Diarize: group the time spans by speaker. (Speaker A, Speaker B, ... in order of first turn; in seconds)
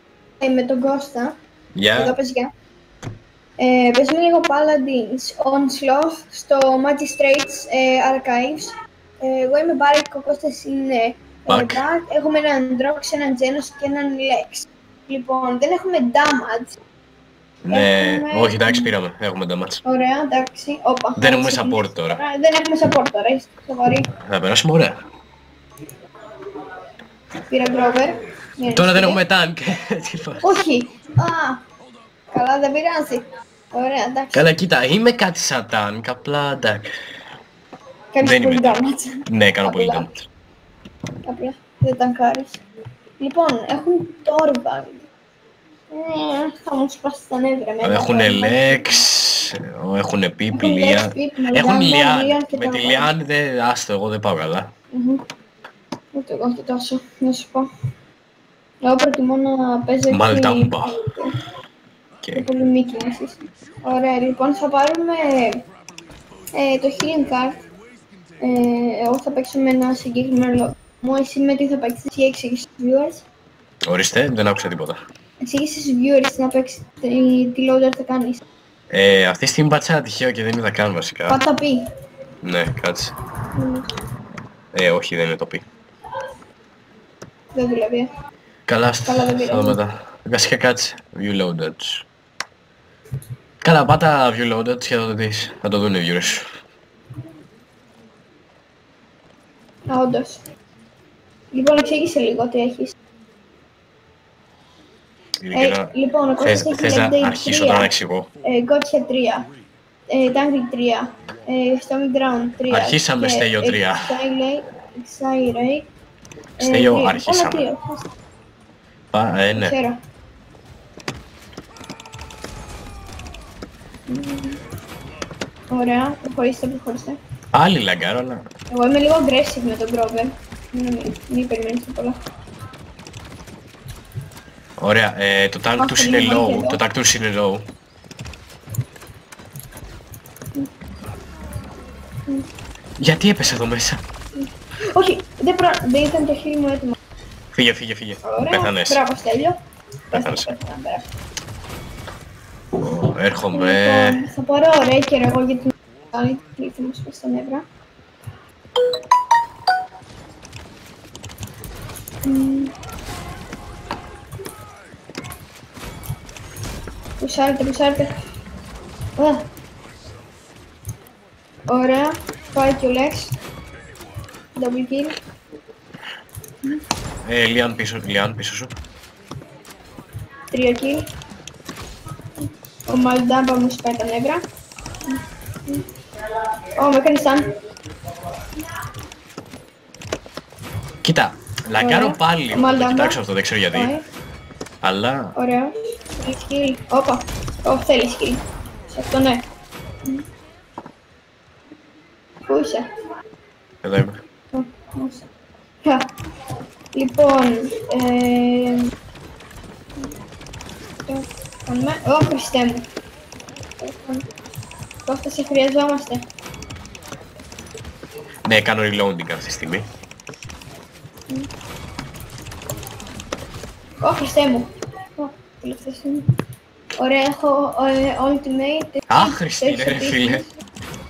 Speaker A: 0.4-1.4, 1.9-2.5, 3.6-16.8, 17.7-18.9, 19.8-24.1, 27.5-29.2, 30.4-31.6, 32.3-34.5, 38.1-40.1, 41.3-42.6, 43.2-45.1, 45.9-49.1, 50.5-53.1, 54.9-55.2, 56.1-57.7, 58.8-61.3, 62.3-65.7, 66.5-67.6, 68.4-73.2, 75.4-78.4, 81.3-81.8, 83.5-83.9, 87.5-88.1, 89.1-89.8, 99.9-100.4, 101.5-102.9, 105.5-109.5, 110.1-115.9, 116.6-118.1, 119.6-120.0, 124.1-124.6, 125.7-127.2, 128.7-132.2, 135.8-136.8, 144.4-147.0, 148.2-149.6, 150.1-151.1, 153.5-157.6, 162.2-162.7, 167.2-168.1, 169.2-169.5, 171.7-173.4, 174.6-175.2, 180.5-181.1, 182.9-184.4, 185.1-185.8, 186.8-187.5, 191.8-193.2, 193.7-194.1, 195.3-199.5, 202.5-202.9, 204.5-205.3, 205.8-206.1, 206.9-208.9, 211.1-212.9, 213.8-214.3, 215.1-216.2, 224.0-226.2, 227.0-230.5
Speaker B: 1.8-2.2, 11.5-11.8, 17.6-19.8, 21.2-22.2, 24.3-25.0, 28.7-30.6, 34.3-36.9, 38.2-40.3, 47.8-54.7, 60.1-61.0, 62.2-62.5, 73.9-75.0, 78.9-81.4, 82.4-83.1, 84.7-85.7, 88.7-92.0, 93.6-96.5, 105.4-108.3, 112.7-114.2, 116.6-117.7, 119.1-119.8, 127.5-128.5, 134.8-137.7, 143.0-144.0, 147.5-149.0, 150.1-150.5, 152.8-154.3, 177.2-178.7, 191.0-193.9, 194.8-195.3, 203.8-204.2, 218.5-219.9, 229.1-230.4